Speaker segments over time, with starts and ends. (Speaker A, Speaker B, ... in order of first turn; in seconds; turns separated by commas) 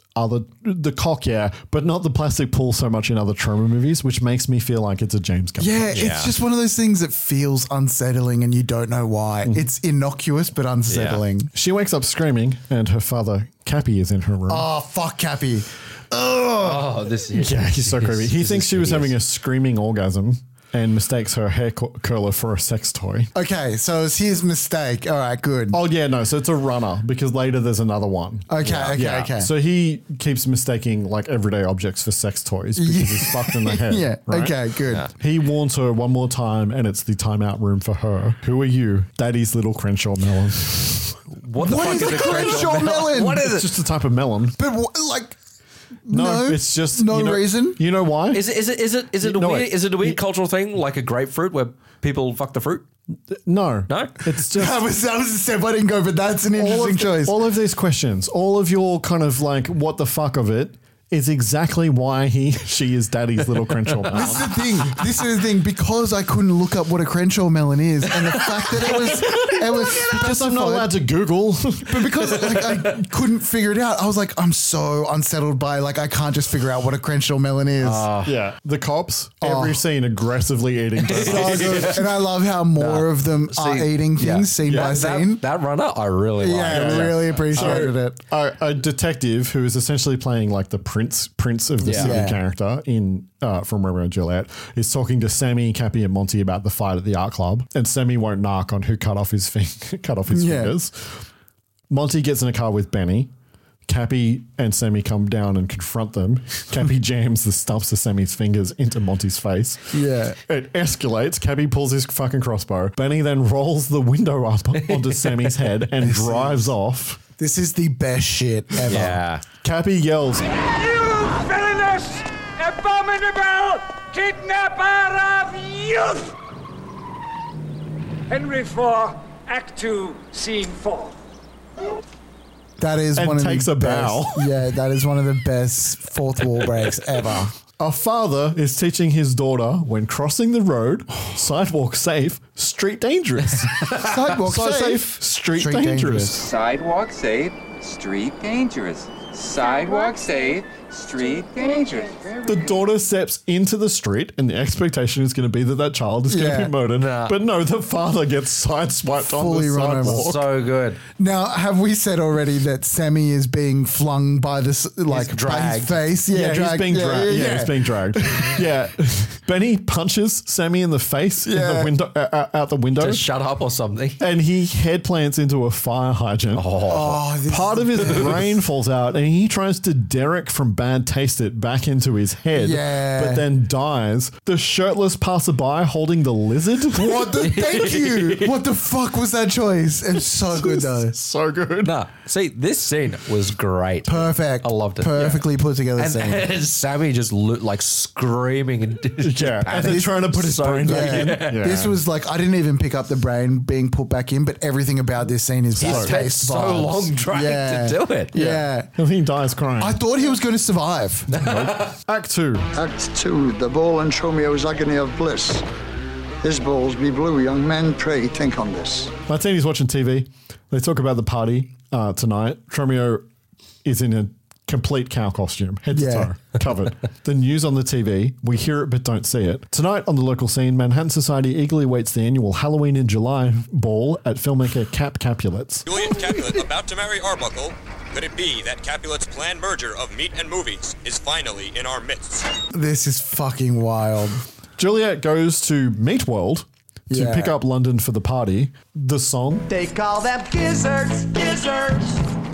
Speaker A: 0.1-5.9, Speaker B: 5.6-11.5, Speaker C: 5.9-6.3, Speaker C: 10.9-11.2, Speaker A: 11.5-14.7, Speaker B: 14.5-16.9, Speaker C: 16.6-19.1, Speaker A: 17.3-23.3, Speaker B: 23.3-25.8, Speaker A: 25.7-44.6, Speaker B: 28.5-29.5, Speaker C: 28.6-28.9, Speaker B: 32.8-35.1, Speaker C: 41.3-43.6, Speaker B: 41.6-43.5, Speaker B: 44.6-45.4, Speaker B: 46.0-47.8, Speaker A: 46.1-48.5, Speaker C: 48.3-52.9, Speaker A: 49.2-50.2, Speaker A: 53.3-54.8, Speaker C: 53.9-54.1, Speaker B: 54.5-57.4, Speaker A: 56.5-64.9, Speaker B: 64.1-70.9, Speaker A: 68.7-73.0, Speaker B: 71.9-78.1, Speaker C: 77.8-78.3, Speaker A: 78.2-82.0, Speaker B: 79.4-79.8, Speaker B: 81.1-85.4, Speaker C: 81.1-82.0, Speaker C: 82.8-87.9, Speaker A: 84.6-85.0, Speaker B: 86.4-88.2, Speaker A: 86.7-101.2, Speaker C: 91.8-92.2, Speaker B: 91.8-92.4, Speaker B: 100.3-100.7, Speaker A: 101.9-103.3, Speaker A: 103.8-117.2, Speaker B: 109.9-110.4, Speaker C: 114.8-115.5, Speaker B: 116.0-116.7, Speaker B: 117.4-119.2, Speaker C: 118.9-119.4, Speaker A: 119.6-120.5, Speaker D: 120.5-126.3, Speaker D: 128.3-131.2, Speaker B: 132.8-137.5, Speaker A: 133.1-134.5, Speaker A: 137.8-146.5, Speaker B: 143.9-146.5, Speaker E: 146.4-152.6, Speaker A: 152.4-160.4, Speaker B: 156.3-156.7, Speaker C: 157.0-157.4, Speaker B: 159.2-160.3, Speaker C: 160.0-161.0, Speaker B: 161.2-168.5, Speaker C: 165.1-166.0, Speaker A: 166.3-173.2, Speaker B: 171.5-171.9, Speaker C: 173.0-174.2, Speaker A: 174.2-176.7, Speaker C: 176.5-177.2, Speaker B: 176.9-178.5, Speaker A: 177.5-187.3, Speaker C: 178.0-178.3, Speaker B: 182.6-183.4, Speaker B: 186.9-191.1, Speaker C: 187.4-188.5, Speaker A: 190.5-191.9, Speaker C: 191.8-201.6, Speaker B: 194.1-196.5, Speaker A: 199.2-202.0, Speaker B: 199.7-200.1, Speaker B: 200.8-208.9, Speaker A: 205.8-206.2, Speaker C: 205.8-208.6, Speaker A: 208.9-210.0, Speaker B: 209.8-211.3, Speaker C: 211.3-211.9, Speaker A: 211.4-212.7, Speaker F: 212.7-215.6, Speaker F: 216.4-219.1, Speaker A: 219.3-223.2, Speaker A: 223.8-235.9, Speaker B: 225.9-226.3, Speaker G: 235.8-242.5, Speaker B: 242.7-244.4, Speaker A: 244.8-249.7, Speaker B: 247.1-247.5, Speaker H: 249.7-252.1